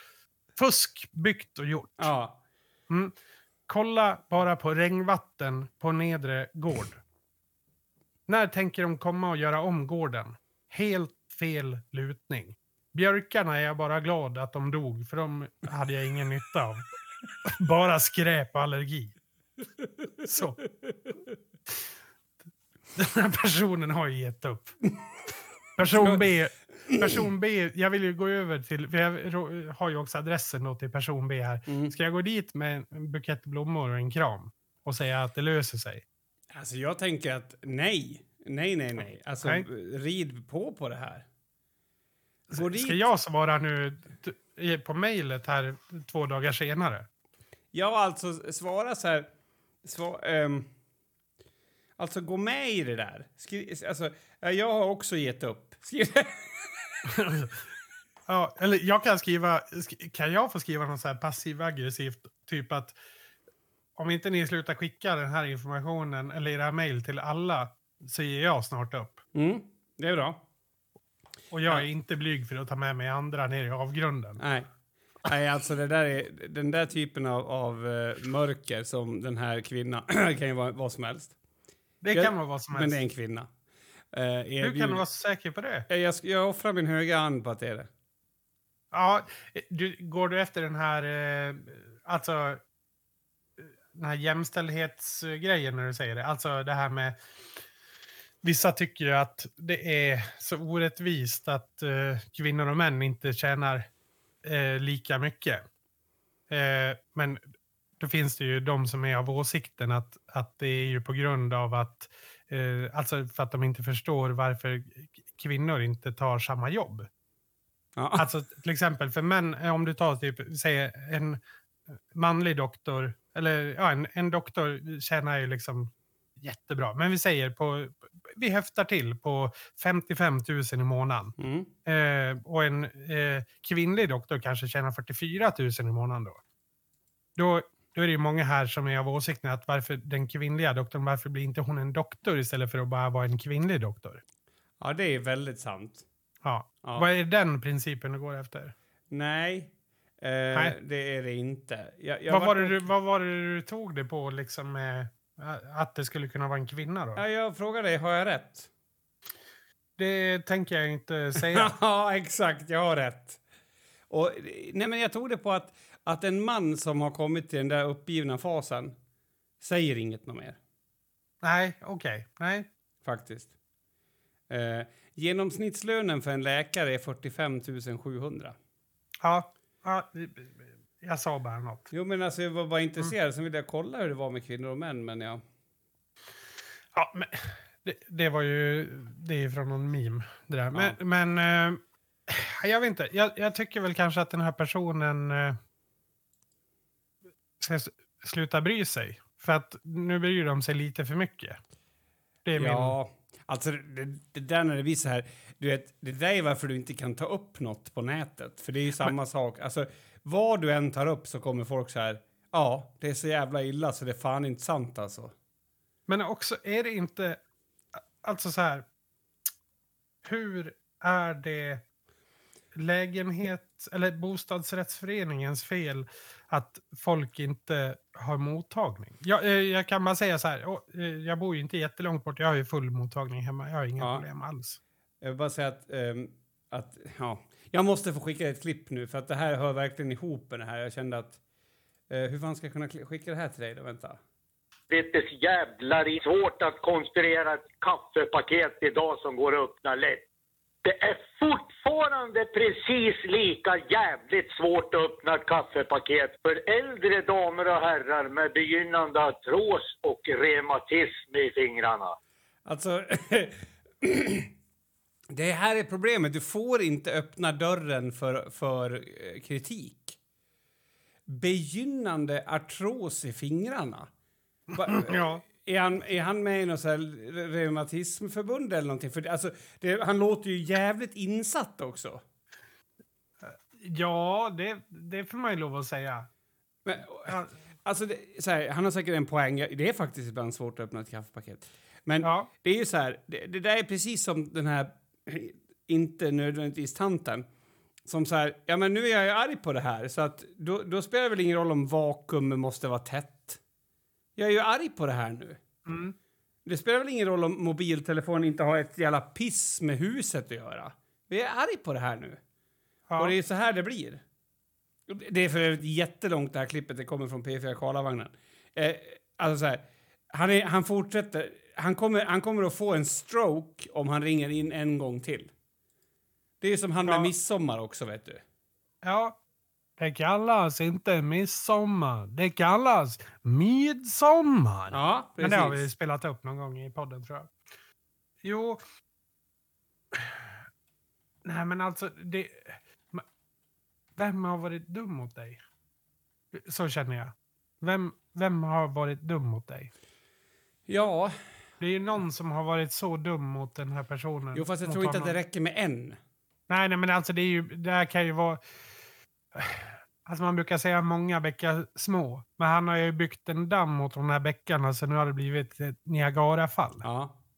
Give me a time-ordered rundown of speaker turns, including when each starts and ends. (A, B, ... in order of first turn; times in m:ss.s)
0:00.6-0:02.1 A
0:02.0-0:02.4 B
0:02.9-0:03.1 A
0:03.7-0:07.0 A
0:08.3-0:16.9 A
0:17.4-0:19.2 A
0:20.2-0:21.0 B
0:20.2-0:20.6 A
0:23.0-0:24.8 A
0:25.8-0:36.0 A
0:25.9-0:26.3 B
0:26.9-0:27.2 B
0:31.7-0:31.9 B
0:36.5-0:41.3 B
0:42.5-0:47.1 A
0:42.6-0:43.1 B
0:47.7-0:49.3 B
0:49.8-0:50.7 B
0:52.0-0:56.8 B
0:57.1-0:57.5 A
0:58.3-1:03.0 A
1:04.0-1:09.2 A
1:09.3-1:10.4 B
1:11.5-1:14.4 A
1:14.4-1:14.7 B
1:15.2-1:21.4 B
1:22.0-1:23.0 A
1:22.1-1:23.5 B
1:24.1-1:25.0 B
1:24.6-1:25.9 A
1:25.9-1:27.9 B
1:28.9-1:32.6 A
1:33.6-1:37.2 A
1:38.4-1:43.9 A
1:44.4-1:45.6 A
1:46.5-1:47.4 A
1:48.0-1:57.1 A
1:58.0-1:58.3 B
1:58.2-2:01.4 A
2:02.1-2:16.4 A
2:11.4-2:11.7 B
2:17.4-2:24.2 A
2:24.8-2:26.0 B
2:26.4-2:28.8 A
2:29.1-2:32.8 B
2:32.3-2:37.2 A
2:37.2-2:38.7 B
2:40.0-2:41.8 A
2:41.4-2:43.4 B
2:44.1-2:49.0 B
2:49.6-2:50.6 B
2:51.4-2:52.7 A
2:53.0-2:53.5 B
2:54.5-2:58.6 B
2:59.2-3:01.9 A
3:01.9-3:05.4 B
3:06.9-3:15.6 A
3:17.6-3:21.6 A
3:22.4-3:23.0 A
3:22.6-3:35.3 B
3:36.1-3:37.4 A
3:38.0-3:38.9 A
3:40.2-3:41.8 A
3:42.8-3:54.8 A
3:54.0-3:54.3 B
3:55.2-4:01.4 B
4:02.1-4:04.2 B
4:04.9-4:10.2 C
4:10.8-4:22.2 C
4:22.6-4:24.5 B
4:25.3-4:30.2 B
4:31.3-4:34.1 B
4:34.7-4:42.2 B
4:34.8-4:35.4 A
4:43.4-4:46.3 A
4:46.8-4:57.5 B
4:52.2-4:52.5 A
4:58.0-5:03.6 B
5:04.4-5:05.6 B
5:05.9-5:06.2 A
5:06.6-5:12.4 B
5:13.1-5:13.4 A
5:13.2-5:14.2 B
5:15.1-5:25.5 B
5:26.6-5:28.4 B
5:27.0-5:27.3 A
5:29.0-5:29.4 A
5:30.0-5:37.5 A
5:34.9-5:35.9 B
5:38.4-5:38.8 A
5:40.1-5:40.5 A
5:41.4-5:43.2 A
5:44.2-5:45.6 A
5:46.5-5:49.9 A
5:50.9-5:51.4 B
5:51.8-5:55.4 A
5:54.5-5:56.2 B
5:56.7-5:58.6 A
5:59.6-6:07.1 A
6:07.0-6:07.4 B